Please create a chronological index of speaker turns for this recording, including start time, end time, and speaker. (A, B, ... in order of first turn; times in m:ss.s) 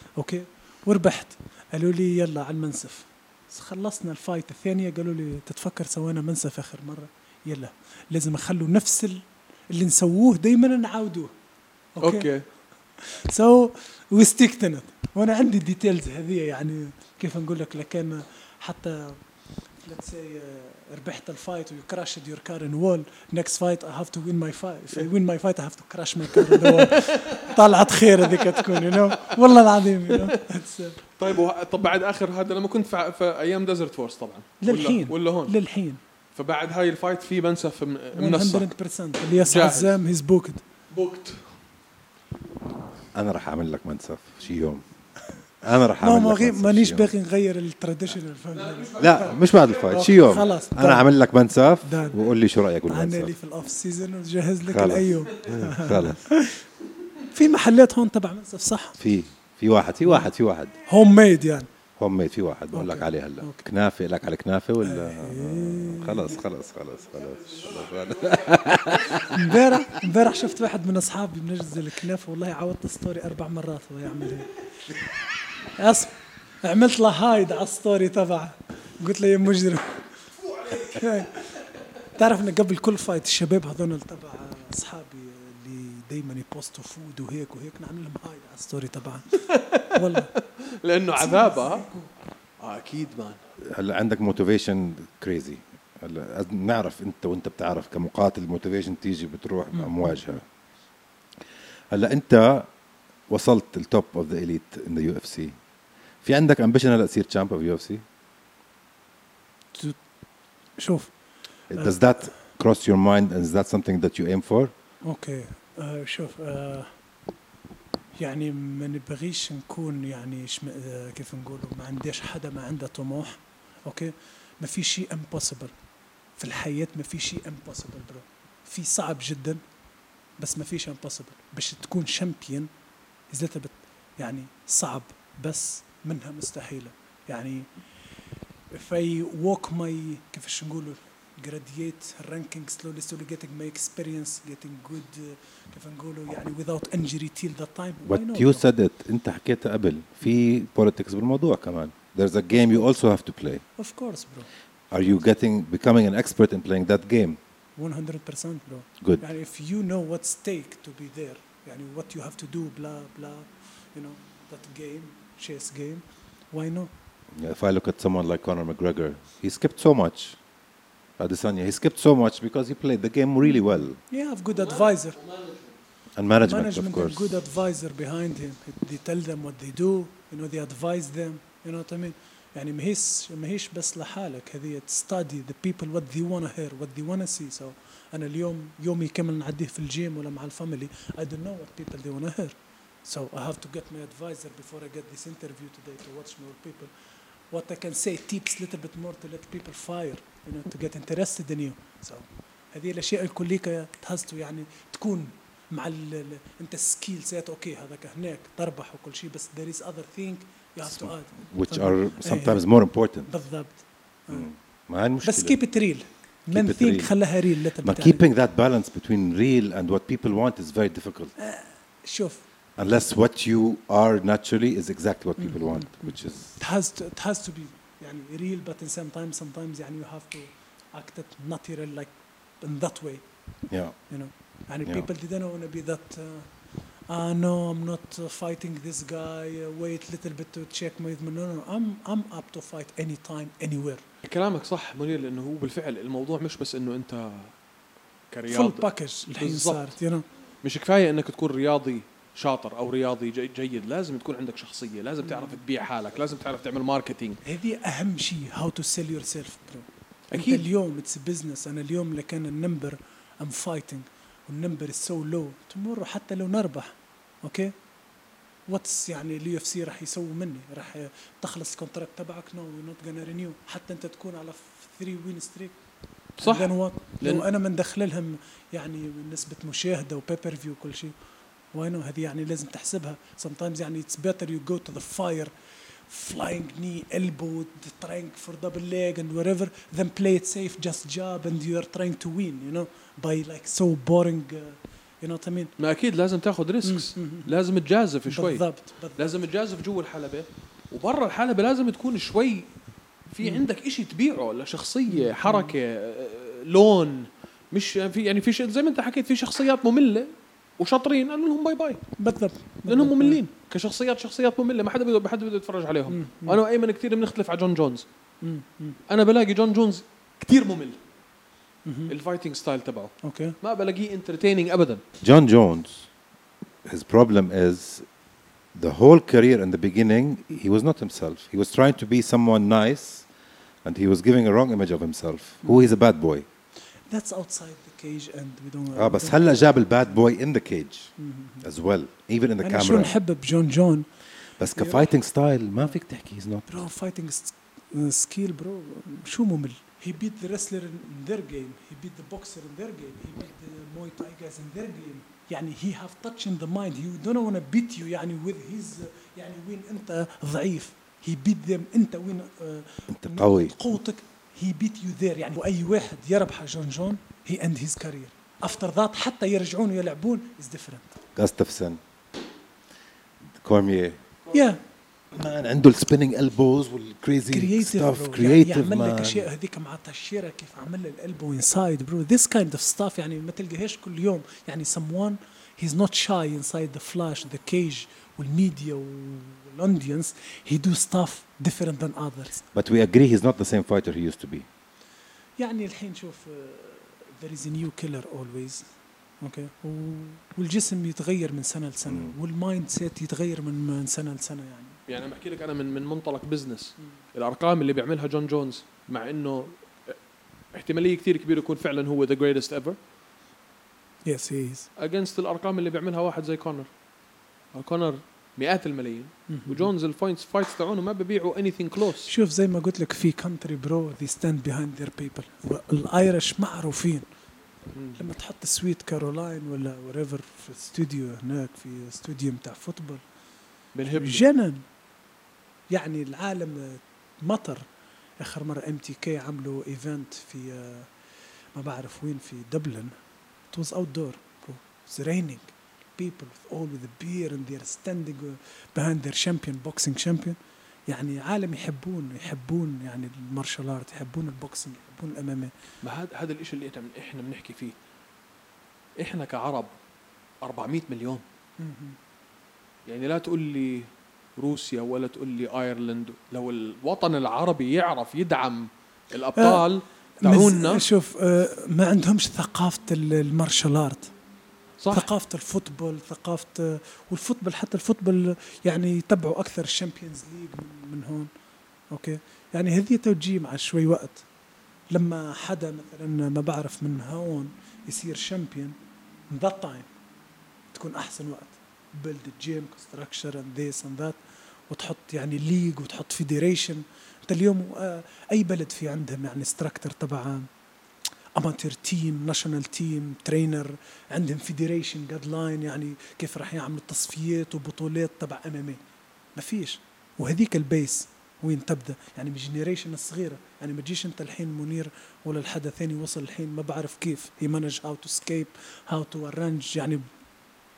0:00.2-0:11.3 A
0:12.0-0:12.3 A
0:12.0-0:12.4 B
0:13.0-0:19.2 A
0:19.8-0:31.0 A
0:26.3-0:27.6 B
0:28.3-0:29.6 B
0:31.2-0:35.6 B
0:34.6-0:36.0 A
0:36.4-0:38.7 B
0:38.2-0:40.6 A
0:39.4-0:40.0 B
0:40.9-0:41.6 B
0:43.1-0:44.8 C
0:45.6-0:47.1 C
0:46.0-0:51.1 A
0:48.5-0:50.0 B
0:49.0-0:53.3 C
0:51.8-0:52.2 A
0:52.9-0:56.6 A
0:54.7-0:56.3 C
0:57.3-0:59.0 A
0:59.0-1:00.8 C
1:00.9-1:01.7 A
1:02.0-1:09.5 C
1:02.7-1:03.7 A
1:04.8-1:06.4 A
1:07.2-1:09.3 B
1:09.3-1:14.6 A
1:15.8-1:30.3 A
1:20.5-1:21.0 B
1:29.5-1:31.9 B
1:31.2-1:32.1 A
1:32.6-1:33.4 B
1:33.6-1:40.4 C
1:39.7-1:40.2 A
1:41.9-1:42.7 C
1:43.3-1:45.6 C
1:46.2-1:48.0 C
1:49.7-1:50.0 A
1:50.8-1:51.1 A
1:51.7-1:54.7 C
1:51.7-1:52.3 A
1:55.0-1:56.9 A
1:58.2-2:05.8 A
2:06.4-2:09.6 A
2:10.4-2:12.7 A
2:13.3-2:17.7 A
2:18.7-2:28.7 A
2:28.1-2:33.6 C
2:33.8-2:34.5 A
2:34.9-2:37.4 C
2:37.8-2:46.9 A
2:47.3-2:50.4 C
2:51.2-2:54.0 C
2:54.1-2:55.2 A
2:54.6-2:55.7 B
2:56.2-2:57.3 C
2:56.5-3:16.9 A
3:17.5-3:32.6 A
3:30.8-3:33.3 C
3:33.3-3:34.5 A
3:34.3-3:35.6 C
3:35.2-3:38.2 A
3:36.5-3:41.3 C
3:41.4-3:42.4 A
3:42.8-3:46.6 C
3:45.4-3:53.3 A
3:53.7-3:54.0 C
3:54.1-3:56.5 A
3:57.1-4:04.0 A
4:04.2-4:07.6 B
4:08.3-4:10.0 B
4:08.5-4:10.2 A
4:10.6-4:17.4 B
4:15.2-4:15.6 A
4:17.4-4:27.7 A
4:20.3-4:20.7 B
4:28.7-4:35.8 A
4:36.4-4:37.5 B
4:36.4-4:41.1 A
4:41.7-4:55.7 A
4:55.8-5:02.8 B
4:56.8-4:57.6 A
4:58.3-4:59.4 A
5:03.3-5:12.2 B
5:05.1-5:05.7 A
5:12.2-5:13.4 A
5:12.9-5:18.0 B
5:16.1-5:16.6 A
5:18.4-5:19.0 A
5:19.1-5:21.0 B
5:21.9-5:22.1 A
5:22.1-5:25.0 B
5:23.2-5:23.6 A
5:25.2-5:26.1 C
5:26.8-5:28.1 C
5:28.7-5:33.3 C
5:33.8-5:36.5 C
5:35.6-5:35.9 A
5:37.1-5:40.2 A
5:39.0-5:43.1 C
5:41.2-5:41.6 A
5:42.6-5:44.1 A
5:44.6-5:46.8 C
5:44.7-5:45.1 A
5:46.7-6:11.2 A
6:03.1-6:03.7 C
6:11.4-6:12.0 C
6:13.5-6:14.2 C
6:14.5-6:14.8 A
6:15.3-6:19.5 C
6:17.5-6:32.7 A
6:32.8-6:34.7 C
6:35.6-6:38.9 A
6:39.4-6:45.0 A
6:42.1-6:42.3 C
6:45.1-6:50.2 B
6:50.7-6:53.0 B
6:54.3-6:54.9 A
6:55.0-6:56.9 B
6:57.7-7:02.3 B
6:59.5-6:59.9 A
7:02.3-7:07.2 A
7:07.9-7:08.2 B
7:08.2-7:13.2 A
7:14.0-7:14.5 B
7:14.1-7:14.8 A
7:15.9-7:17.9 A
7:18.4-7:21.1 A
7:21.8-7:23.2 A
7:23.7-7:35.7 A
7:36.0-7:38.0 B
7:39.2-7:39.9 B
7:40.6-7:41.4 B
7:41.8-7:42.2 A
7:43.1-7:51.0 B
7:49.6-7:49.9 A
7:50.4-7:54.3 A
7:55.0-7:55.3 B
7:55.1-8:01.5 A
8:02.1-8:04.4 A
8:05.1-8:09.0 A
8:09.5-8:10.1 A
8:10.9-8:14.4 A
8:14.9-8:20.7 A
8:21.6-8:29.0 A
8:29.6-8:40.3 A